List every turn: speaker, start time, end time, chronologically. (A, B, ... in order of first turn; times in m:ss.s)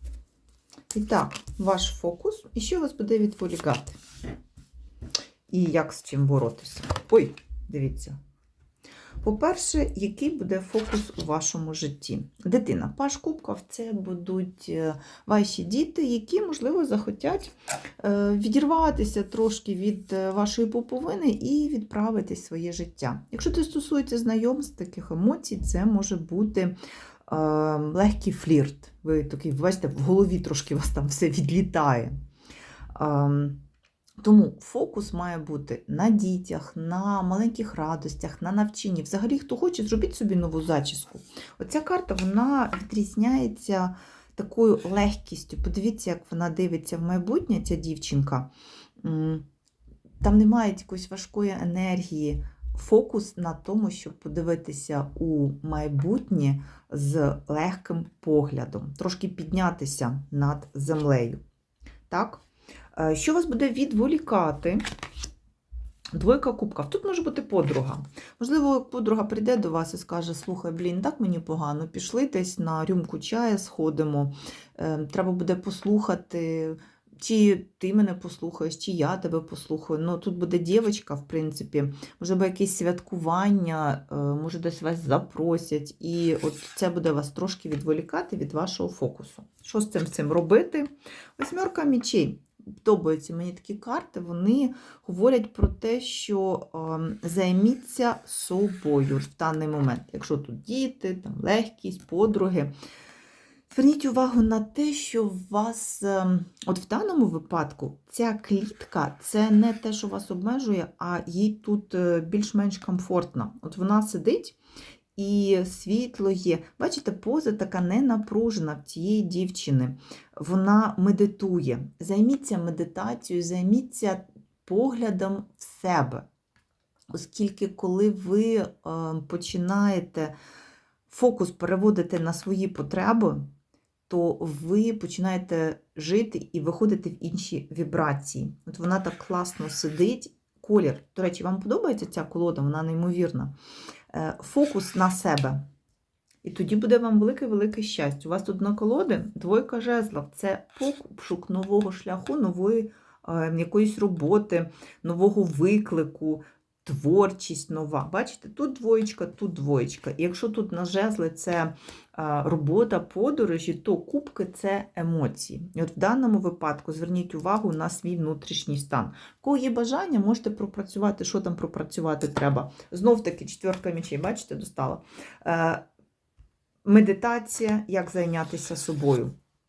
0:00.9-0:04.0 A
0:05.5-0:08.2 A
0:09.2-0:32.1 A
0:32.9-0:33.6 A
0:34.2-0:48.5 A
0:49.0-0:49.4 A
0:50.2-1:01.4 A
1:02.1-1:02.4 A
1:03.0-1:04.8 A
1:06.1-1:42.7 A
1:43.7-1:54.6 A
1:55.2-2:06.3 A
2:07.1-2:10.3 A
2:11.1-2:13.5 A
2:14.1-2:23.5 A
2:24.1-2:25.6 A
2:26.4-2:55.8 A
2:56.8-2:59.3 A